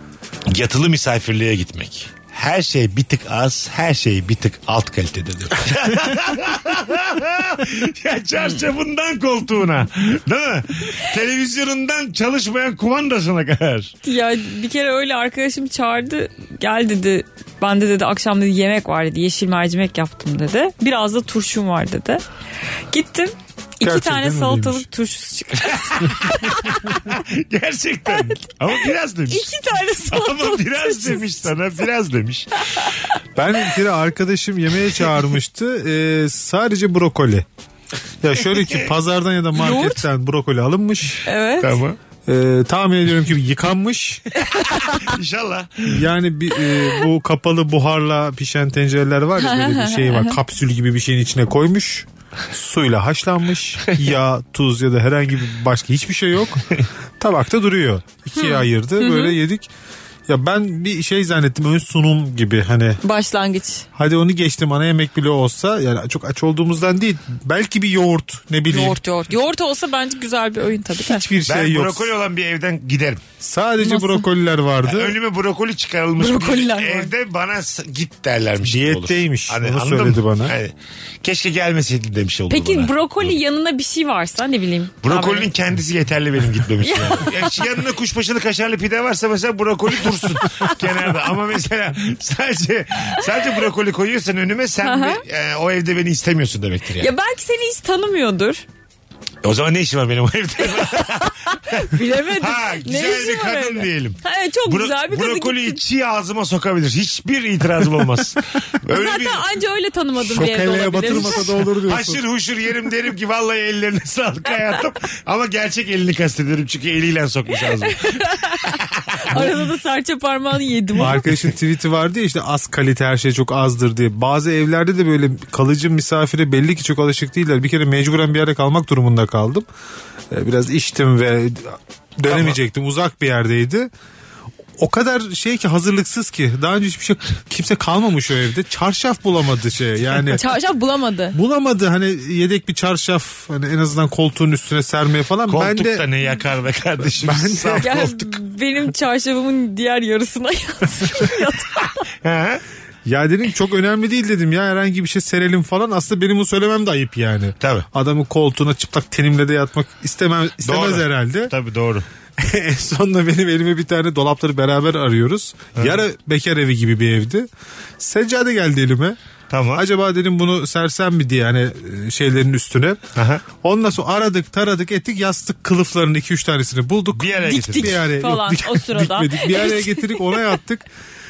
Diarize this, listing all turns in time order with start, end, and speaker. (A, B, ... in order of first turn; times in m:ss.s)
0:00.5-0:13.9 A
0:14.0-0:22.2 B
0:22.9-0:26.7 B
0:23.8-0:24.9 C
0:25.9-0:32.9 A
0:29.3-0:31.5 B
0:33.4-0:37.5 C
0:38.2-0:41.2 C
0:38.5-0:38.9 A
0:39.6-0:40.0 B
0:41.3-0:41.8 B
0:41.6-0:42.0 A
0:42.3-0:44.2 C
0:44.4-0:45.1 B
0:45.0-0:46.0 A
0:45.9-0:56.6 C
0:49.4-0:50.4 B
0:57.2-0:59.7 C
0:58.4-0:59.4 B
1:00.3-1:03.0 C
1:03.0-1:03.9 B
1:04.0-1:09.0 C
1:08.7-1:11.2 B
1:11.0-1:12.2 C
1:11.5-1:13.2 A
1:13.4-1:15.2 C
1:13.8-1:14.3 B
1:14.8-1:23.4 A
1:16.2-1:17.1 B
1:18.6-1:20.6 C
1:22.5-1:25.5 B
1:25.0-1:37.1 A
1:26.8-1:27.6 B
1:34.8-1:35.2 B
1:37.0-1:38.6 B
1:39.4-1:49.4 A
1:41.5-1:45.8 B
1:48.9-1:51.5 B
1:50.2-1:52.2 C
1:51.0-1:59.5 A
1:57.9-1:58.8 B
1:59.3-2:01.3 B
2:01.0-2:09.7 C
2:10.3-2:13.9 C
2:12.3-2:12.6 A
2:14.8-2:20.4 C
2:20.3-2:21.4 B
2:21.3-2:26.1 C
2:25.5-2:28.3 A
2:27.2-2:28.1 C
2:27.8-2:32.0 B
2:32.2-2:32.6 A
2:33.0-2:41.5 C
2:37.6-2:37.9 A
2:40.6-2:42.0 A
2:42.4-2:47.5 C
2:45.8-2:46.0 A
2:48.0-2:49.2 C
2:49.5-2:49.8 A
2:49.8-2:53.0 C
2:53.2-2:53.4 A
2:53.6-3:00.9 C
2:57.1-2:58.1 A
2:57.5-3:00.6 B